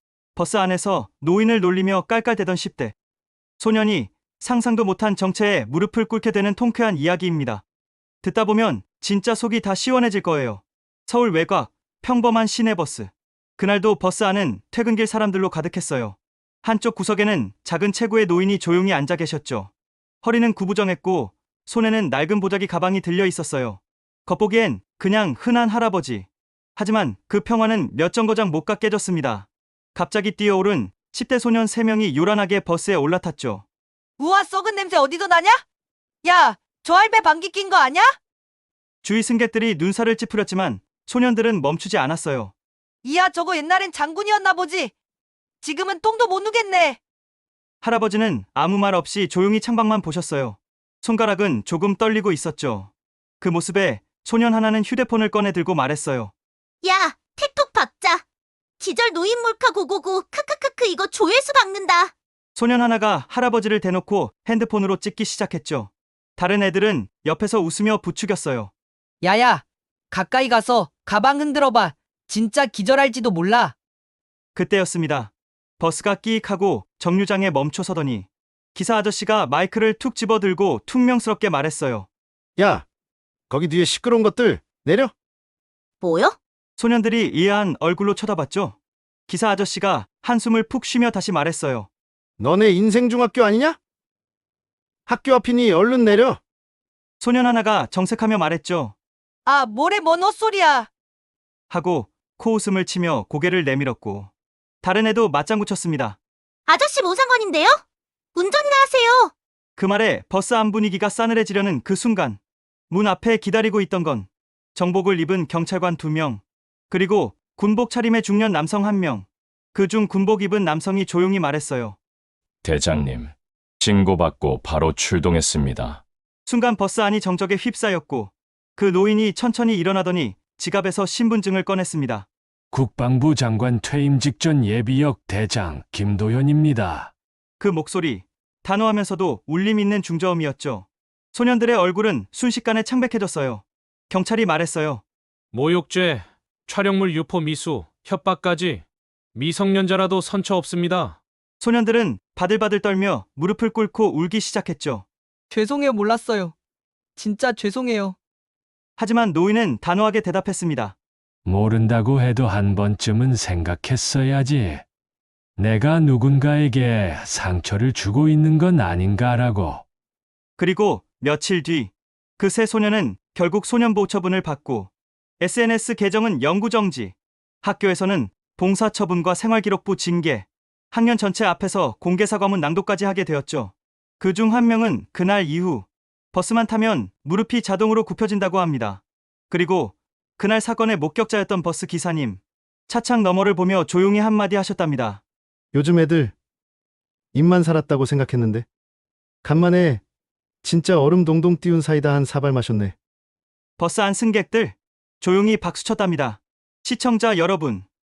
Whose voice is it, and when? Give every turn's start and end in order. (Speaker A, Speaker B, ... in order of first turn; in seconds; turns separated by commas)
Speaker A: 0.3-2.9, Speaker A: 3.6-7.6, Speaker A: 8.2-19.7, Speaker A: 20.2-33.6, Speaker B: 34.2-35.6, Speaker B: 36.2-38.1, Speaker A: 39.0-42.5, Speaker B: 43.0-44.9, Speaker B: 45.6-47.0, Speaker A: 47.8-56.3, Speaker C: 56.9-58.2, Speaker C: 58.8-62.1, Speaker A: 62.5-68.7, Speaker B: 69.2-73.7, Speaker A: 74.5-82.1, Speaker D: 82.6-82.8, Speaker D: 83.5-85.1, Speaker C: 86.0-86.3, Speaker A: 86.8-88.8, Speaker A: 89.3-91.9, Speaker D: 92.4-93.8, Speaker D: 95.0-96.4, Speaker A: 97.2-98.9, Speaker B: 99.5-100.9, Speaker A: 101.7-104.3, Speaker A: 104.8-106.2, Speaker C: 106.7-107.7, Speaker C: 108.4-109.3, Speaker A: 109.8-122.0, Speaker A: 126.5-132.3, Speaker E: 132.7-137.1, Speaker A: 137.6-145.0, Speaker F: 145.5-151.2, Speaker A: 151.6-155.0, Speaker B: 155.5-156.5, Speaker B: 157.2-158.2, Speaker A: 159.0-160.9, Speaker E: 161.4-164.8, Speaker E: 165.6-169.8, Speaker A: 170.6-195.2, Speaker D: 195.7-196.3, Speaker D: 197.3-198.6, Speaker D: 199.4-200.0, Speaker D: 200.6-202.9, Speaker A: 203.8-207.8